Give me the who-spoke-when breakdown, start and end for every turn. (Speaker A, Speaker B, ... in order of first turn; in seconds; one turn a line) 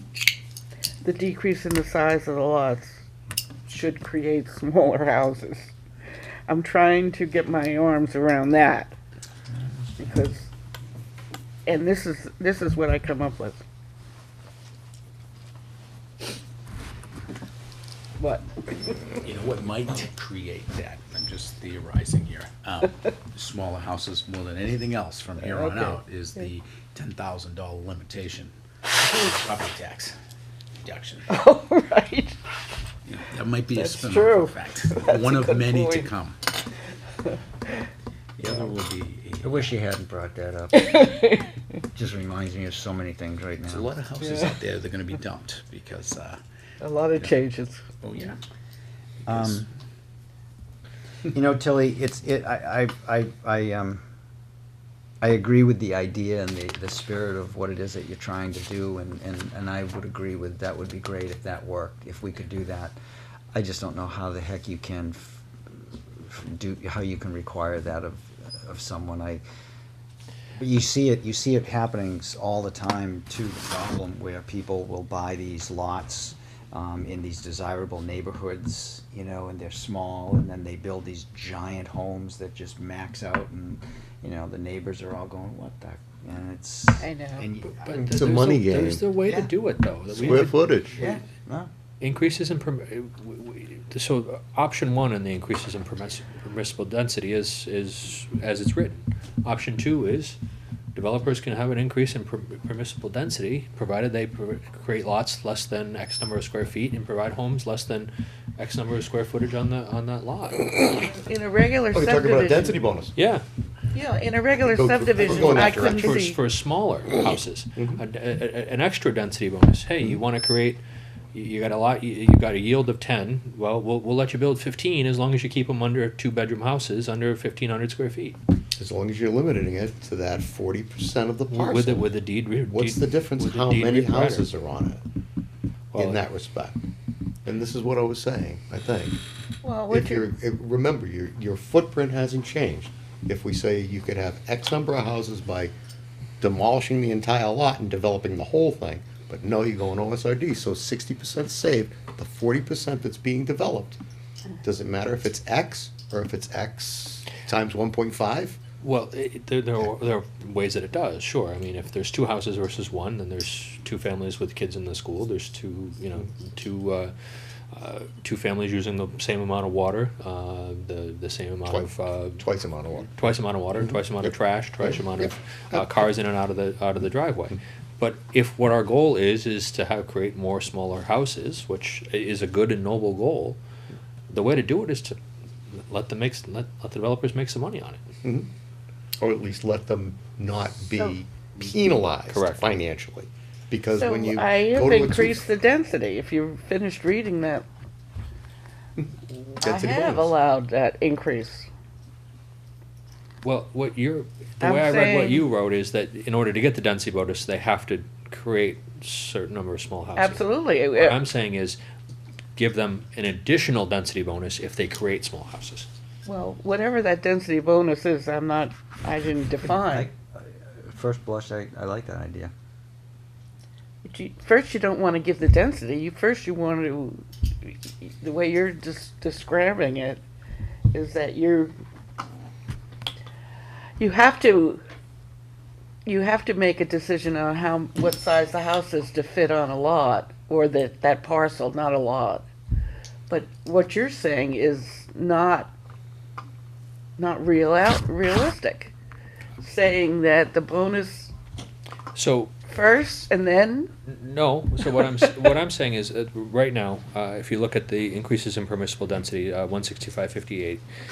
Speaker A: 1.0-3.0
Speaker A: 3.7-5.7
Speaker A: 6.5-9.0
Speaker A: 10.0-10.5
Speaker A: 11.7-13.6
Speaker A: 18.2-18.5
Speaker B: 19.2-30.2
Speaker A: 25.5-26.0
Speaker B: 30.8-31.3
Speaker A: 31.3-32.4
Speaker B: 33.0-36.4
Speaker A: 33.7-36.1
Speaker B: 38.4-39.7
Speaker C: 38.5-38.7
Speaker C: 39.4-41.1
Speaker A: 40.8-41.5
Speaker C: 41.9-43.9
Speaker B: 43.7-46.4
Speaker A: 46.8-47.8
Speaker B: 48.0-48.4
Speaker B: 49.2-49.6
Speaker C: 49.3-49.7
Speaker C: 51.3-54.0
Speaker C: 55.2-63.0
Speaker C: 63.5-65.4
Speaker C: 66.2-69.4
Speaker C: 70.5-87.8
Speaker A: 87.0-87.5
Speaker D: 87.7-91.1
Speaker E: 87.9-89.0
Speaker C: 89.2-89.5
Speaker E: 90.1-91.0
Speaker C: 90.1-91.7
Speaker D: 92.0-100.4
Speaker D: 100.9-110.8
Speaker A: 110.9-112.8
Speaker E: 111.9-113.1
Speaker D: 113.2-113.4
Speaker A: 113.9-116.4
Speaker E: 114.6-116.2
Speaker D: 115.4-120.8
Speaker E: 117.8-118.0
Speaker D: 121.3-128.4
Speaker E: 128.8-132.1
Speaker D: 131.5-134.5
Speaker E: 132.6-135.0
Speaker D: 135.9-136.2
Speaker E: 135.9-136.8
Speaker E: 137.4-139.2
Speaker A: 139.6-140.2
Speaker E: 139.9-145.7
Speaker E: 146.4-154.0
Speaker E: 154.6-158.6
Speaker D: 158.8-167.1
Speaker D: 167.7-172.4
Speaker E: 171.7-173.2
Speaker D: 173.1-183.6
Speaker E: 173.8-176.0
Speaker D: 184.3-185.2
Speaker D: 185.7-188.0
Speaker E: 188.2-188.5
Speaker E: 189.2-195.4
Speaker A: 190.9-191.1
Speaker D: 192.3-192.7
Speaker A: 194.0-197.7
Speaker A: 199.6-201.7
Speaker E: 199.6-200.3
Speaker D: 203.4-211.8
Speaker A: 204.6-205.4
Speaker A: 210.2-211.2
Speaker D: 212.6-215.9
Speaker A: 216.2-220.1
Speaker C: 219.6-222.5
Speaker A: 224.0-230.2
Speaker A: 230.9-231.7
Speaker A: 234.0-234.8
Speaker A: 236.0-242.4
Speaker A: 243.3-245.7
Speaker A: 247.2-248.9
Speaker A: 249.6-251.3
Speaker D: 252.1-252.5
Speaker A: 252.7-253.9
Speaker D: 254.1-260.8